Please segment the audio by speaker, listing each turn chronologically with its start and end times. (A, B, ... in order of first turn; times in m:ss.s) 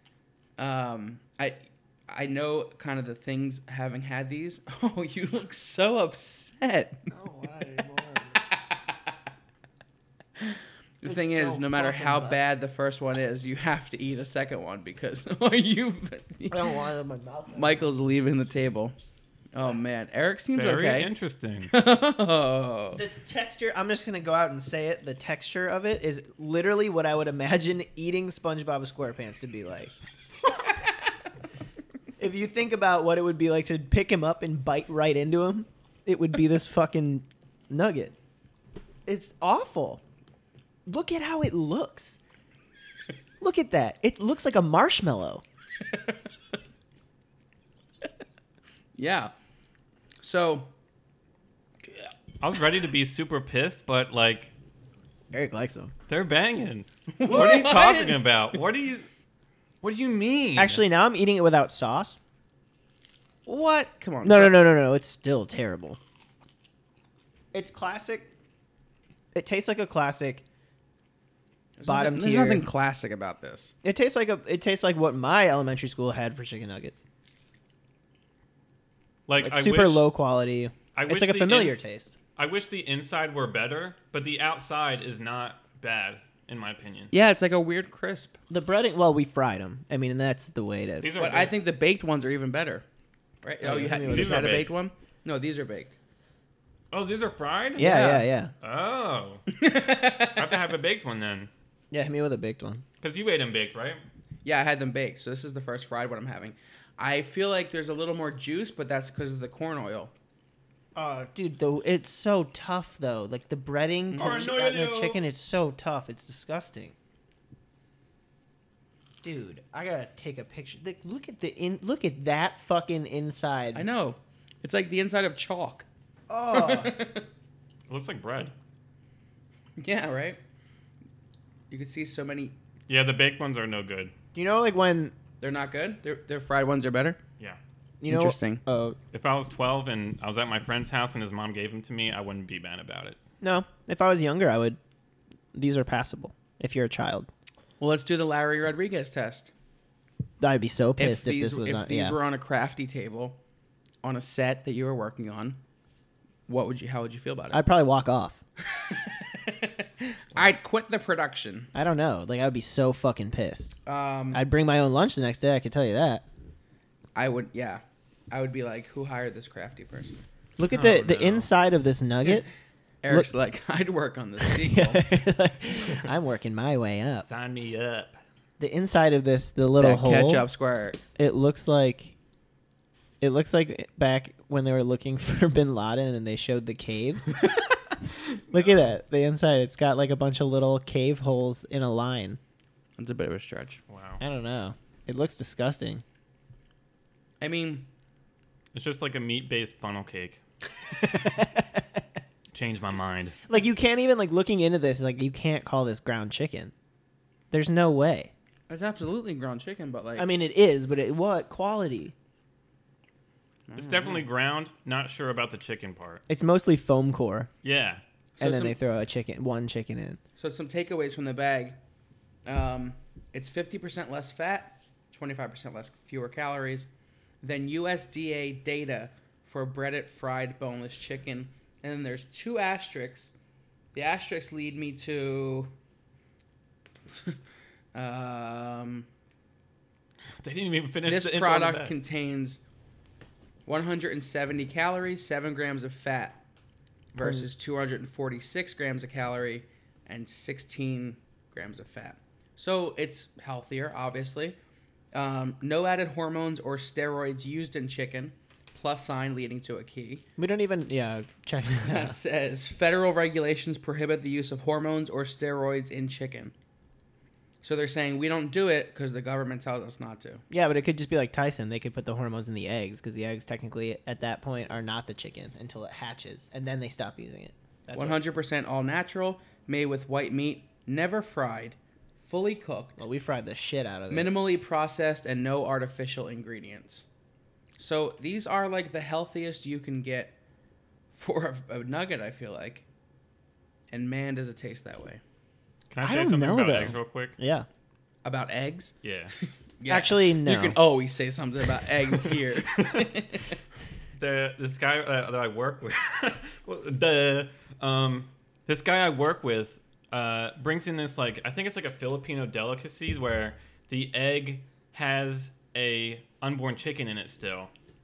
0:00.6-0:07.1 A
0:07.1-0:08.4 B
0:08.4-0:09.0 A
0:10.4-0:16.6 A
0:11.0-0:12.4 B
0:16.5-0:17.8 B
0:17.5-0:18.9 A
0:19.5-0:21.1 A
0:20.6-0:21.7 C
0:21.7-0:23.0 A
0:23.0-0:29.9 B
0:32.2-0:38.2 B
0:39.1-0:40.0 B
0:40.9-0:42.2 B
0:43.4-0:45.4 B
0:49.0-0:49.3 A
0:50.2-0:50.7 A
0:52.4-0:54.5 C
0:55.3-0:55.9 B
0:56.1-0:59.1 C
0:57.2-0:58.2 A
0:59.8-1:00.8 C
1:00.6-1:02.2 B
1:03.5-1:04.6 A
1:04.2-1:06.0 B
1:07.5-1:08.3 B
1:09.3-1:10.4 B
1:11.8-1:13.8 A
1:11.9-1:12.6 B
1:13.8-1:17.0 B
1:19.3-1:20.0 C
1:19.4-1:22.1 B
1:21.0-1:21.8 C
1:22.4-1:27.1 C
1:27.1-1:28.4 A
1:28.5-1:31.1 B
1:31.0-1:31.5 C
1:31.2-1:32.8 A
1:33.4-1:36.0 A
1:33.6-1:34.6 B
1:33.8-1:34.7 C
1:36.9-1:38.1 C
1:37.8-1:38.5 B
1:37.8-1:38.2 A
1:38.6-1:39.5 C
1:39.5-1:40.6 A
1:40.2-1:41.5 C
1:41.9-1:42.8 B
1:43.0-1:44.0 C
1:44.4-1:50.1 A
1:51.0-1:56.9 B
1:54.1-1:54.5 A
1:54.2-1:55.2 C
1:59.2-2:03.8 B
2:03.7-2:05.9 A
2:06.3-2:07.0 B
2:06.5-2:07.3 A
2:07.9-2:08.5 C
2:09.8-2:10.4 A
2:11.7-2:12.6 A
2:12.9-2:14.1 C
2:14.4-2:15.1 B
2:15.4-2:17.2 A
2:18.0-2:19.0 B
2:18.1-2:18.6 A
2:19.1-2:23.2 C
2:23.4-2:24.8 B
2:25.5-2:27.3 B
2:27.8-2:29.5 A
2:30.4-2:32.2 B
2:31.0-2:33.4 A
2:34.0-2:35.6 A
2:36.5-2:37.6 A
2:37.5-2:38.4 B
2:38.6-2:41.7 A
2:41.8-2:43.8 B
2:43.9-2:44.4 A
2:44.3-2:46.2 B
2:47.2-2:50.2 A
2:50.6-2:52.5 B
2:50.7-2:51.5 C
2:53.0-2:55.1 A
2:54.4-2:57.3 B
2:57.2-2:58.2 C
2:58.6-3:00.5 B
2:59.8-3:01.0 A
3:01.2-3:02.1 B
3:03.2-3:07.5 B
3:08.5-3:12.4 B
3:13.0-3:13.8 A
3:13.9-3:14.2 C
3:14.2-3:16.0 B
3:17.4-3:17.9 A
3:18.7-3:20.4 C
3:21.1-3:21.7 B
3:22.5-3:23.4 C
3:23.5-3:26.7 B
3:27.5-3:28.3 B
3:28.7-3:30.3 A
3:30.2-3:32.1 B
3:33.7-3:34.3 A
3:33.8-3:36.2 C
3:36.3-3:37.5 B
3:37.6-3:38.0 C
3:38.4-3:38.8 A
3:38.4-3:40.2 B
3:40.4-3:41.8 A
3:42.5-3:46.9 A
3:47.4-3:53.3 A
3:54.0-3:55.7 A
3:57.1-3:57.4 A
3:57.9-3:59.1 A
4:00.4-4:01.9 C
4:01.0-4:02.6 A
4:03.7-4:06.4 A
4:07.1-4:14.6 A
4:15.1-4:20.3 A
4:20.4-4:22.2 B
4:21.8-4:26.5 A
4:27.6-4:30.4 A
4:30.5-4:38.2 B
4:38.0-4:43.0 A
4:43.0-4:44.3 B
4:44.1-4:47.1 A
4:47.8-4:50.4 A
4:51.1-4:52.8 A
4:53.9-4:55.2 A
4:55.9-4:57.4 C
4:56.0-4:57.7 B
4:58.2-4:58.9 A
4:59.0-4:59.3 C
4:59.8-5:03.5 A
4:59.9-5:00.8 B
5:02.8-5:03.1 C
5:04.2-5:17.7 C